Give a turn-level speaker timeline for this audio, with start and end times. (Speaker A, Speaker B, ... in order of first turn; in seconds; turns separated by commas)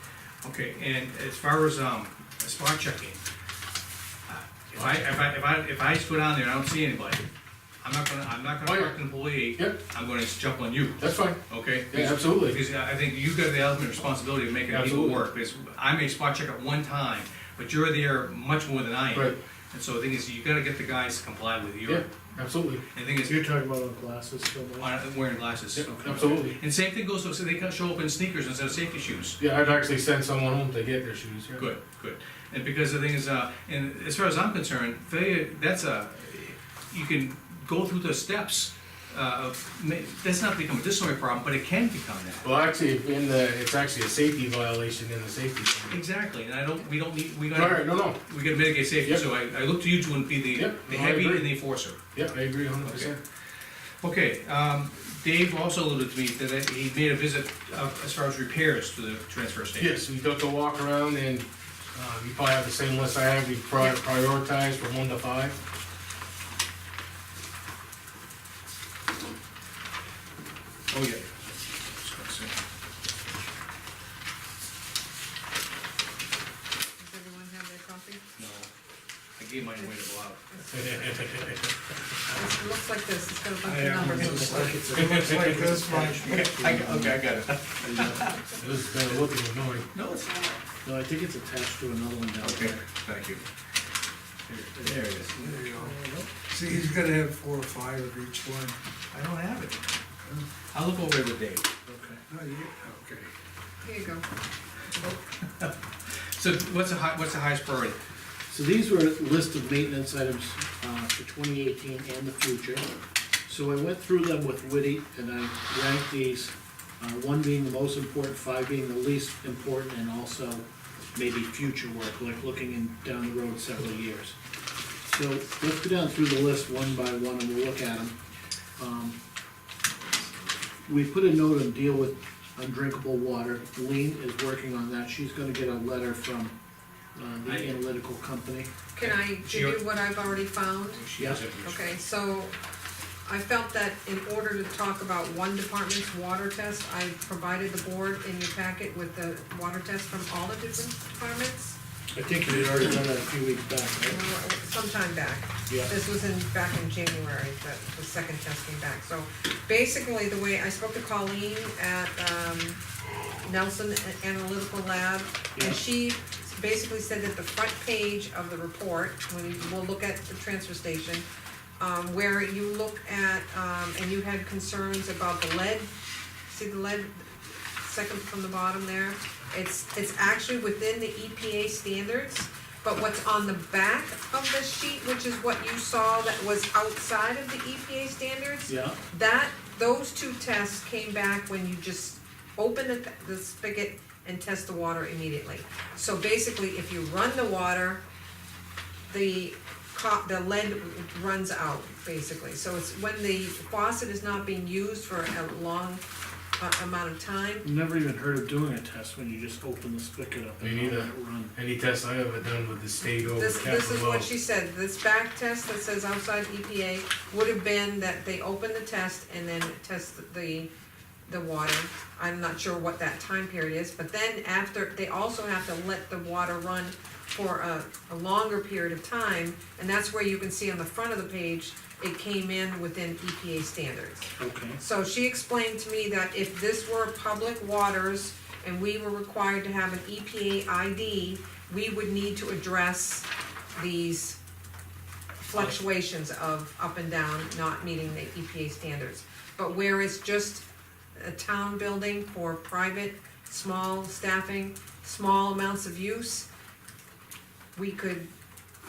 Speaker A: 0.4-3.2, Speaker A: 4.3-7.2, Speaker A: 7.8-22.1, Speaker B: 8.6-9.8, Speaker B: 11.0-12.6, Speaker B: 14.7-15.2, Speaker B: 19.1-19.4, Speaker B: 21.8-22.8, Speaker A: 22.9-23.4, Speaker C: 23.2-24.9, Speaker A: 24.8-29.4, Speaker B: 25.8-26.6, Speaker C: 25.8-26.4, Speaker B: 29.4-31.6, Speaker A: 31.6-42.5, Speaker B: 42.4-46.0, Speaker A: 45.9-52.0, Speaker B: 47.5-48.2, Speaker B: 50.5-51.5, Speaker B: 52.1-53.2, Speaker A: 52.8-53.1, Speaker A: 54.0-59.9, Speaker B: 59.8-65.5, Speaker A: 70.9-72.5, Speaker D: 77.0-78.2, Speaker A: 78.3-78.7, Speaker A: 79.4-81.1, Speaker D: 80.5-81.0, Speaker B: 80.7-81.7, Speaker D: 82.3-84.7, Speaker A: 83.6-88.4, Speaker C: 84.0-88.4, Speaker E: 84.5-86.7, Speaker B: 84.9-85.8, Speaker B: 88.6-89.9, Speaker A: 89.9-90.6, Speaker C: 90.8-92.8, Speaker A: 92.4-93.4, Speaker A: 94.5-95.9, Speaker C: 94.8-96.3, Speaker A: 96.5-97.2, Speaker E: 96.5-98.8, Speaker A: 97.7-100.0, Speaker A: 100.7-101.6, Speaker C: 101.8-102.2, Speaker E: 102.3-103.2, Speaker D: 103.8-104.2, Speaker A: 105.0-105.7, Speaker A: 106.3-108.0, Speaker C: 108.5-112.9, Speaker C: 113.5-124.3, Speaker C: 125.0-128.2, Speaker C: 128.8-129.2, Speaker C: 130.8-136.6, Speaker C: 137.1-138.7, Speaker A: 137.4-137.7, Speaker D: 138.9-141.1, Speaker A: 139.0-139.8, Speaker A: 141.0-142.0, Speaker D: 141.6-142.5, Speaker D: 143.2-151.8, Speaker C: 152.1-154.2, Speaker D: 154.1-162.8, Speaker D: 163.4-171.2, Speaker D: 171.8-175.9, Speaker D: 176.5-198.0, Speaker C: 188.7-189.0, Speaker D: 199.1-206.0, Speaker D: 206.6-207.7, Speaker C: 207.6-211.5, Speaker B: 210.6-214.3, Speaker D: 213.3-220.7, Speaker D: 221.3-244.4, Speaker C: 234.4-234.8, Speaker D: 245.4-250.6, Speaker D: 251.2-256.5, Speaker D: 257.7-258.3